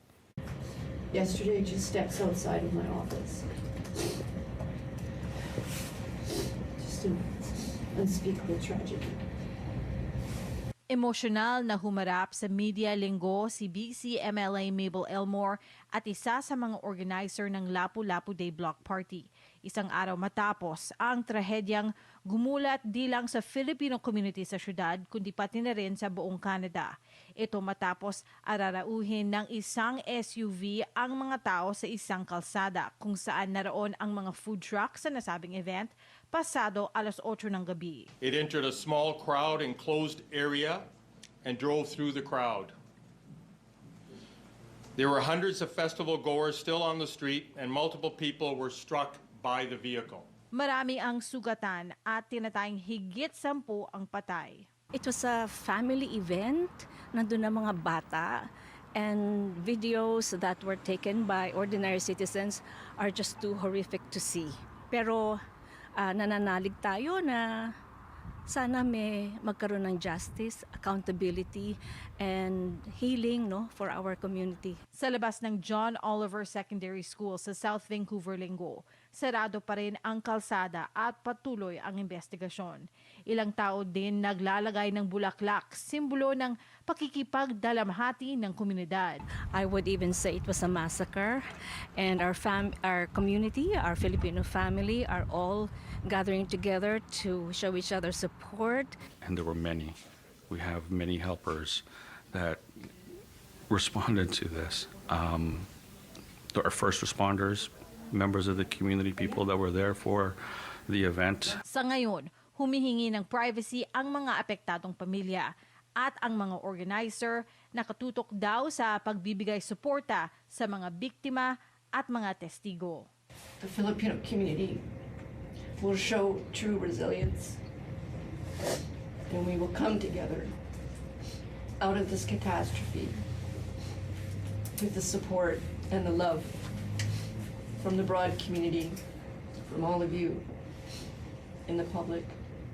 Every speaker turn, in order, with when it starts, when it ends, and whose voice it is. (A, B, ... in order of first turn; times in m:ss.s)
0:01.1-0:03.6 A
0:06.8-0:09.2 A
0:10.9-0:38.1 B
0:38.2-0:40.8 C
0:41.4-0:42.7 C
0:45.0-0:50.3 C
0:50.5-0:54.7 B
0:54.9-1:05.4 D
1:06.0-1:07.8 D
1:08.5-1:14.8 D
1:14.9-1:29.2 B
1:29.5-1:31.4 D
1:32.0-1:38.9 D
1:39.2-1:40.0 E
1:40.5-1:42.6 E
1:43.7-1:45.7 E
1:46.5-1:51.6 E
1:51.7-2:03.1 B
2:03.6-2:04.9 A
2:05.8-2:07.6 A
2:09.3-2:10.6 A
2:11.8-2:13.2 A
2:14.7-2:17.0 A
2:17.8-2:19.0 A
2:19.6-2:20.5 A
2:21.6-2:22.4 A